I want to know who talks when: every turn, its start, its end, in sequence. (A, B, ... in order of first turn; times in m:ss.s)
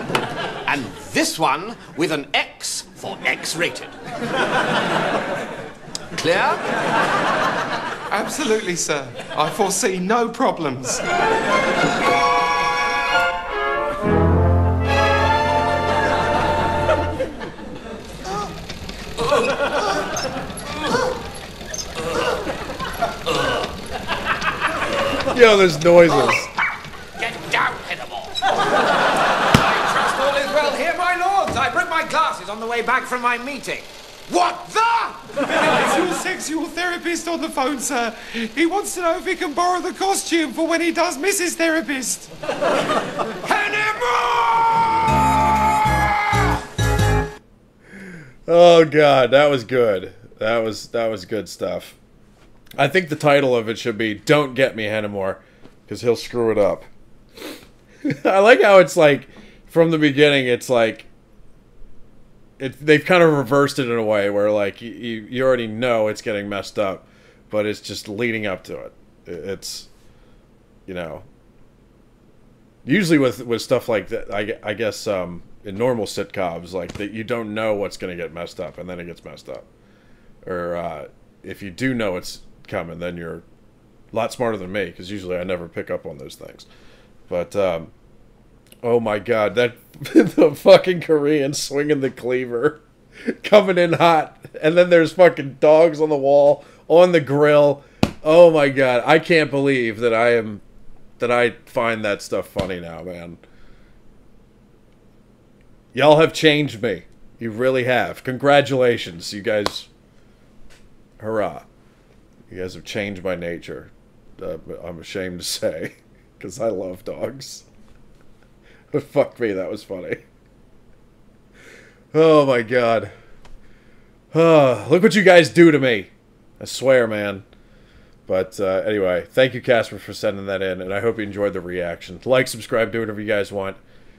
0:00.6-0:03.9 A
0:06.2-0:06.6 A
0:08.1-0:11.0 B
0:25.3-0:26.5 C
0:27.2-0:28.4 A
0:29.5-0:35.4 A
0:35.5-0:42.3 B
0:43.4-0:46.5 A
0:48.5-0:52.0 C
0:52.8-0:56.8 C
0:58.0-1:01.1 C
1:02.6-1:09.9 C
1:10.9-1:11.2 C
1:12.8-1:19.6 C
1:20.4-1:23.4 C
1:24.1-1:26.7 C
1:27.3-1:27.9 C
1:28.8-1:40.6 C
1:41.2-1:43.4 C
1:45.9-1:49.9 C
1:51.2-1:51.6 C
1:52.5-1:57.6 C
1:58.9-2:00.2 C
2:02.1-2:03.1 C
2:04.3-2:07.4 C
2:08.3-2:13.8 C